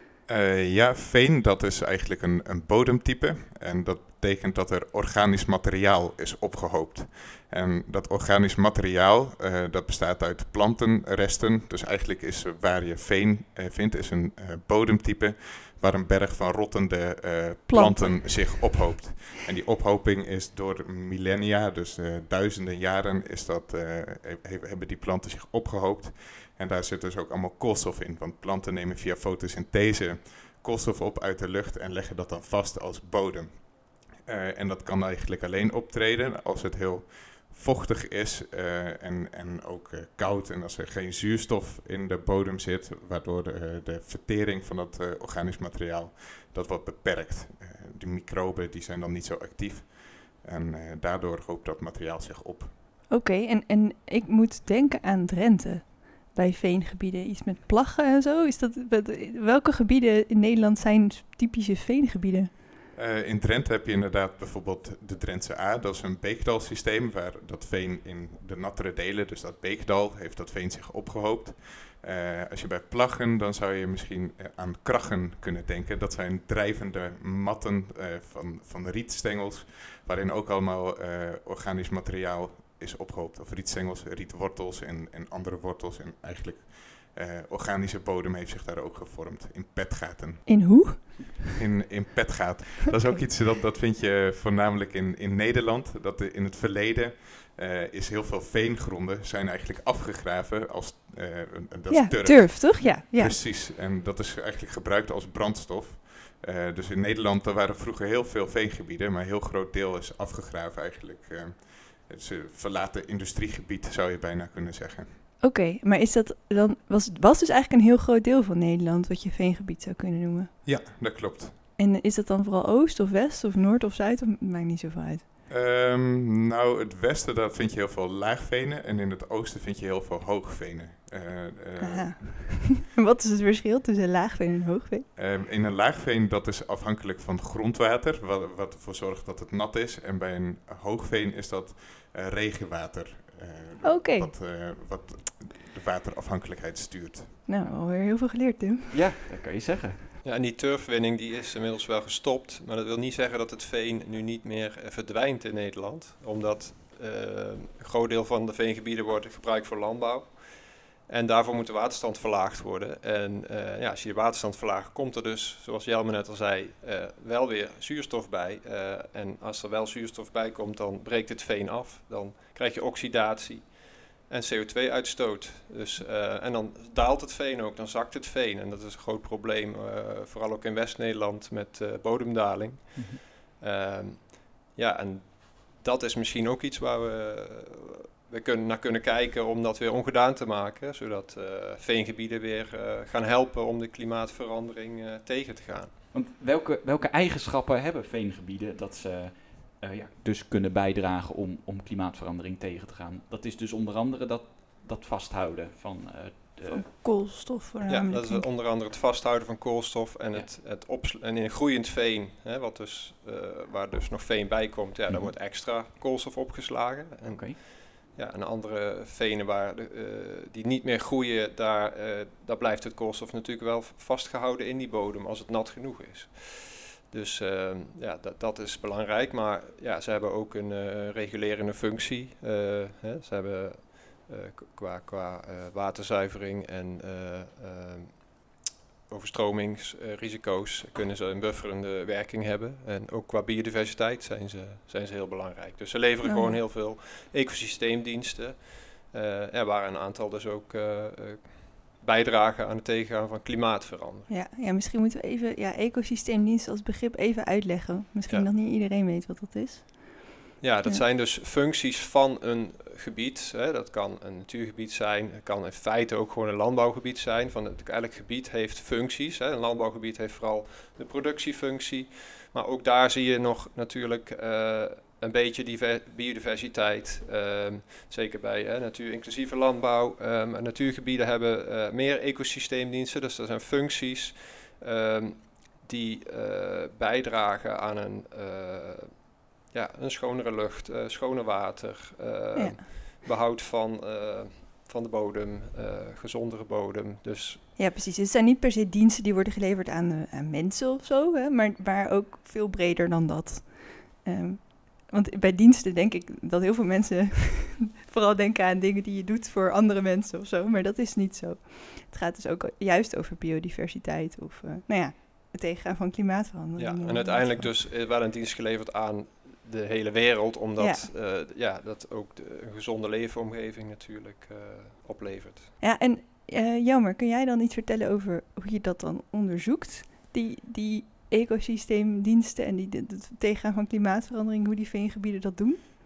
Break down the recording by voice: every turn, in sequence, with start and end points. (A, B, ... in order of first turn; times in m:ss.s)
0:00.3-0:52.7 A
0:17.7-0:18.9 B
0:53.1-1:02.5 B
1:02.9-1:31.0 A
1:30.5-1:31.6 B
1:31.6-1:55.1 A
1:41.9-1:43.4 B
1:55.4-2:00.5 B
2:00.6-2:01.5 A
2:01.8-2:05.3 B
2:05.5-2:12.7 A
2:11.8-2:15.0 B
2:15.2-2:27.3 A
2:23.8-2:24.3 B
2:27.5-2:29.0 B
2:28.9-2:30.1 C
2:30.2-3:15.9 D
3:16.1-3:26.9 C
3:26.7-3:28.4 B
3:27.8-3:58.5 D
3:35.1-3:35.3 C
3:37.2-3:37.6 C
3:59.1-4:14.3 D
4:06.2-4:06.6 B
4:14.3-4:21.0 B
4:20.6-4:57.6 D
4:52.6-4:53.0 B
4:57.8-5:17.7 B
5:16.8-5:25.7 D
5:20.8-5:21.1 B
5:25.8-5:35.8 B